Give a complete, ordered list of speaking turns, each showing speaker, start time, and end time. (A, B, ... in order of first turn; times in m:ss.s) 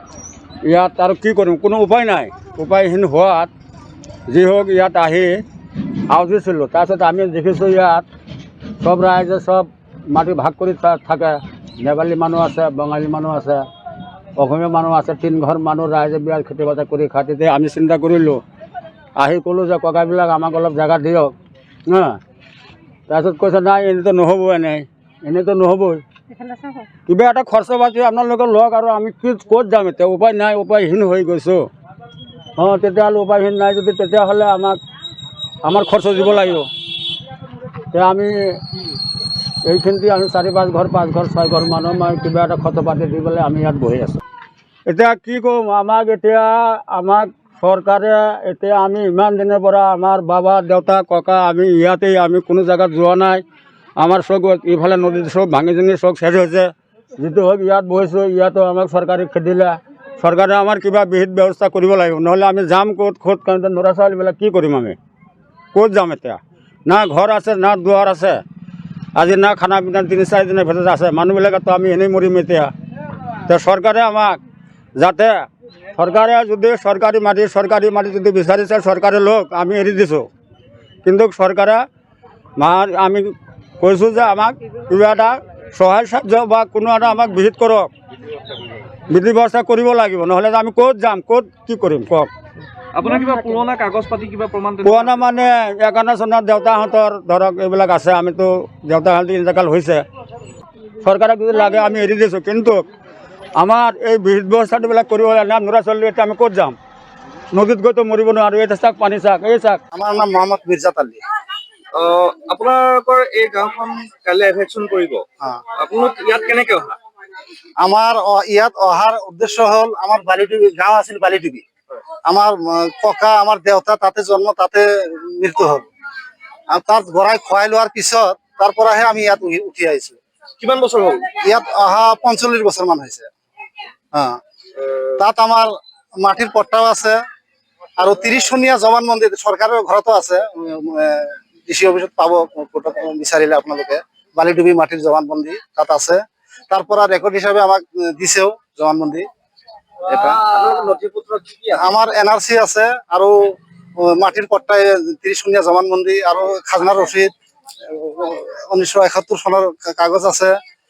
0:00.7-0:03.5 A
0:04.3-0:05.4 A
0:06.1-0:08.1 A
0:08.8-0:13.7 A
0:14.4-0:18.4 A
0:19.2-0:21.4 A
0:21.9-0:22.2 A
0:23.1-0:26.0 A
0:27.1-0:31.7 A
0:32.6-0:34.8 A
0:35.6-0:36.7 A
0:37.9-0:38.6 A
0:39.6-0:44.2 A
0:44.9-0:53.4 A
0:54.0-1:05.0 A
1:05.7-1:08.4 A
1:09.2-1:12.7 A
1:13.5-1:14.4 A
1:15.0-1:20.3 A
1:21.0-1:21.8 A
1:22.6-1:27.9 A
1:29.1-1:32.3 A
1:32.9-1:35.2 B
1:34.8-1:40.0 A
1:41.0-1:42.8 A
1:43.6-1:46.8 A
1:47.5-1:49.8 A
1:49.9-1:51.2 C
1:52.0-1:55.2 B
1:55.8-1:57.0 B
1:57.8-2:01.6 C
2:02.3-2:05.8 C
2:06.7-2:10.2 C
2:10.6-2:11.2 B
2:11.4-2:13.3 C
2:14.1-2:14.4 C
2:15.2-2:17.2 C
2:18.0-2:29.3 C
2:30.1-2:31.8 B
2:30.1-2:30.4 C
2:31.7-2:37.3 C
2:37.9-2:40.6 C